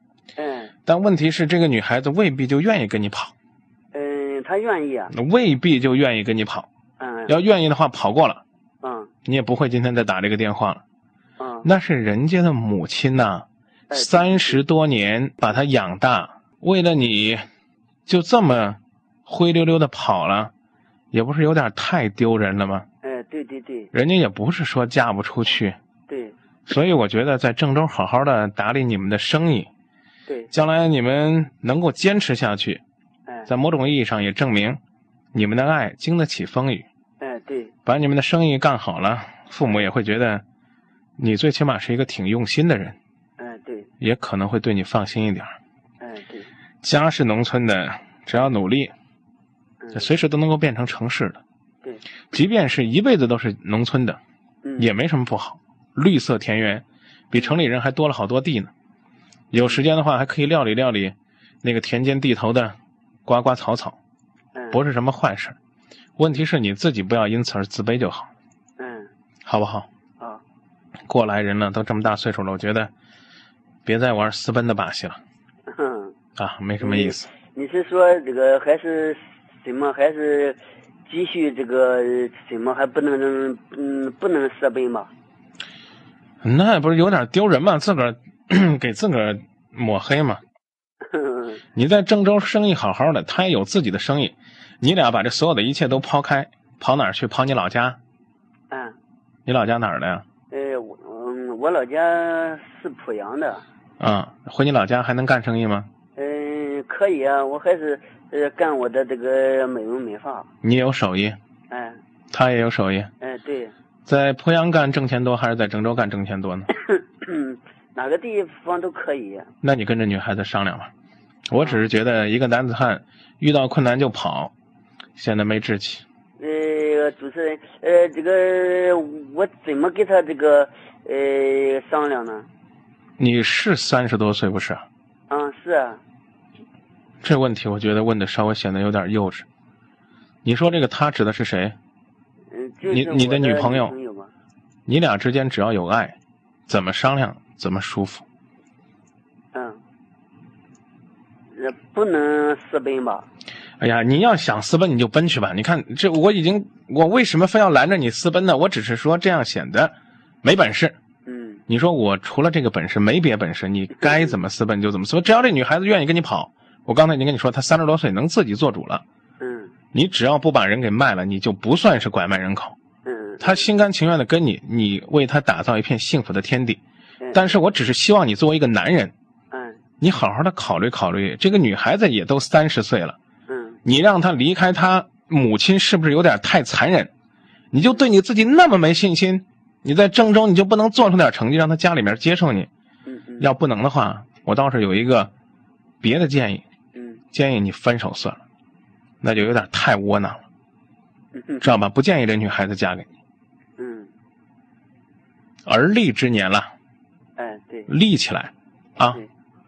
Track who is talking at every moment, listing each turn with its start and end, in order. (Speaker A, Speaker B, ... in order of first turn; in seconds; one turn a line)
Speaker A: 0.4-0.7
Speaker B: 0.8-3.3
Speaker A: 3.9-5.1
Speaker B: 5.1-6.7
Speaker A: 7.0-7.3
Speaker B: 7.3-8.4
Speaker A: 8.8-9.1
Speaker B: 9.2-10.8
Speaker A: 11.4-11.7
Speaker B: 11.6-17.4
Speaker A: 13.9-14.6
Speaker B: 18.1-20.5
Speaker B: 21.1-22.9
Speaker A: 23.0-23.9
Speaker B: 23.9-25.8
Speaker A: 26.1-26.3
Speaker B: 26.7-29.7
Speaker B: 30.5-32.8
Speaker B: 33.5-34.8
Speaker B: 35.3-36.8
Speaker A: 37.2-37.7
Speaker B: 37.9-40.4
Speaker B: 41.2-43.0
Speaker A: 43.4-43.9
Speaker B: 44.0-45.5
Speaker A: 46.0-46.5
Speaker B: 46.8-48.9
Speaker A: 49.8-50.1
Speaker B: 49.9-51.4
Speaker B: 52.3-54.2
Speaker A: 54.6-54.9
Speaker B: 54.8-58.7
Speaker B: 59.5-64.0
Speaker B: 64.7-65.5
Speaker B: 66.2-68.3
Speaker A: 68.8-69.1
Speaker B: 69.5-69.9
Speaker B: 71.1-72.9
Speaker B: 73.8-75.2
Speaker A: 75.7-76.1
Speaker B: 76.4-77.3
Speaker A: 76.8-85.1
Speaker B: 86.4-90.4
Speaker A: 91.0-91.6
Speaker B: 91.7-98.0
Speaker A: 98.7-99.0
Speaker B: 99.5-100.2
Speaker A: 100.5-103.6
Speaker B: 104.0-105.9
Speaker A: 106.2-110.5
Speaker B: 110.6-111.4
Speaker A: 111.7-112.0
Speaker B: 112.3-113.1
Speaker A: 113.2-113.7
Speaker B: 114.1-116.7
Speaker A: 116.7-119.5
Speaker B: 119.6-120.9
Speaker B: 121.5-124.5
Speaker A: 121.6-121.9
Speaker B: 125.2-126.0
Speaker A: 126.4-132.5
Speaker B: 133.2-134.8
Speaker A: 135.3-136.0
Speaker B: 137.2-139.4
Speaker B: 140.4-141.8
Speaker A: 142.5-144.3
Speaker B: 142.9-143.9
Speaker B: 144.9-146.2
Speaker B: 146.7-148.2
Speaker A: 149.5-149.8
Speaker A: 151.5-153.3
Speaker B: 153.8-160.9
Speaker A: 161.2-161.6
Speaker B: 161.7-169.0
Speaker A: 163.9-164.4
Speaker A: 169.4-169.7
Speaker B: 169.9-172.8
Speaker A: 173.0-173.7
Speaker B: 173.4-176.8
Speaker A: 177.2-177.5
Speaker B: 177.3-179.1
Speaker A: 179.5-179.8
Speaker B: 180.0-183.2
Speaker A: 183.5-183.8
Speaker B: 183.8-187.1
Speaker B: 187.7-192.7
Speaker A: 187.8-188.0
Speaker A: 193.1-193.5
Speaker B: 193.4-195.3
Speaker B: 196.0-196.6
Speaker A: 196.9-197.2
Speaker B: 197.3-198.4
Speaker B: 199.2-200.4
Speaker A: 201.3-201.8
Speaker B: 201.6-203.1
Speaker A: 203.8-204.1
Speaker B: 205.7-206.7
Speaker A: 207.4-207.9
Speaker B: 207.9-209.2